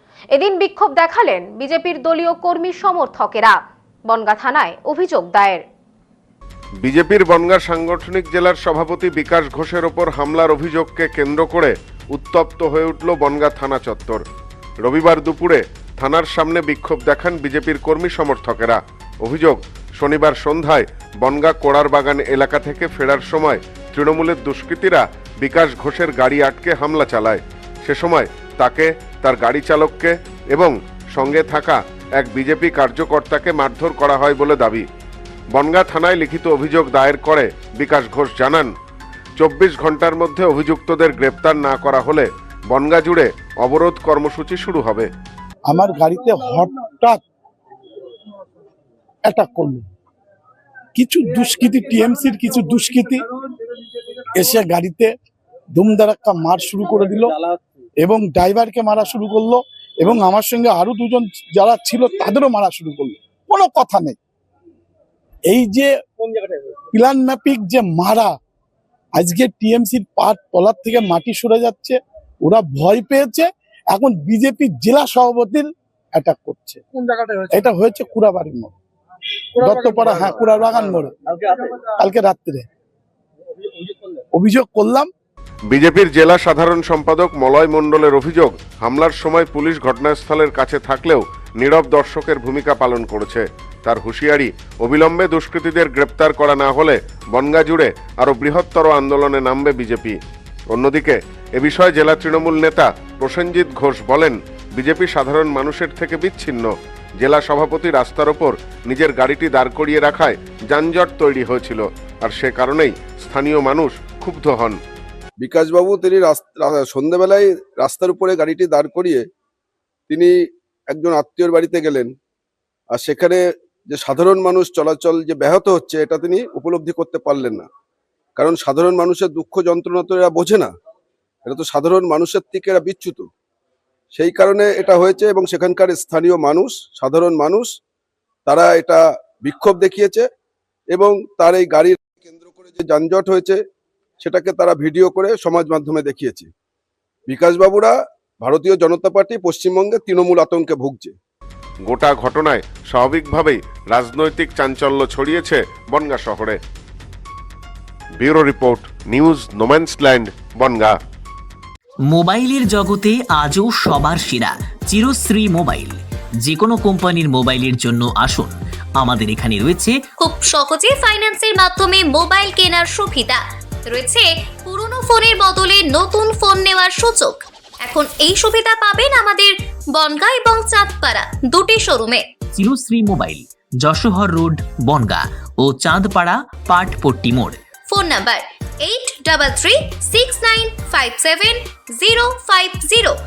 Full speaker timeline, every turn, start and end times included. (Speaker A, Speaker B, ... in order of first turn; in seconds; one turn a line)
Speaker A: 0.3-5.6
Speaker B: 6.8-14.2
Speaker B: 14.8-34.8
Speaker B: 35.5-38.7
Speaker B: 39.4-45.1
Speaker C: 45.7-47.2
Speaker C: 49.3-49.9
Speaker C: 51.0-53.3
Speaker C: 54.3-55.1
Speaker C: 55.8-57.4
Speaker C: 58.0-64.2
Speaker C: 65.5-65.9
Speaker C: 66.9-68.3
Speaker C: 69.2-76.8
Speaker C: 77.5-78.7
Speaker C: 79.6-81.2
Speaker C: 81.8-82.6
Speaker C: 84.3-85.1
Speaker B: 85.7-100.2
Speaker B: 100.7-114.8
Speaker D: 115.4-119.2
Speaker D: 120.9-122.1
Speaker D: 122.9-127.7
Speaker D: 128.4-130.7
Speaker D: 131.4-133.2
Speaker D: 134.1-137.7
Speaker D: 138.4-140.2
Speaker D: 140.9-143.6
Speaker D: 144.2-146.5
Speaker D: 147.3-151.1
Speaker B: 151.9-156.6
Speaker B: 158.2-160.9
Speaker E: 162.1-170.0
Speaker F: 170.2-182.2
Speaker E: 182.6-187.6
Speaker F: 187.9-193.1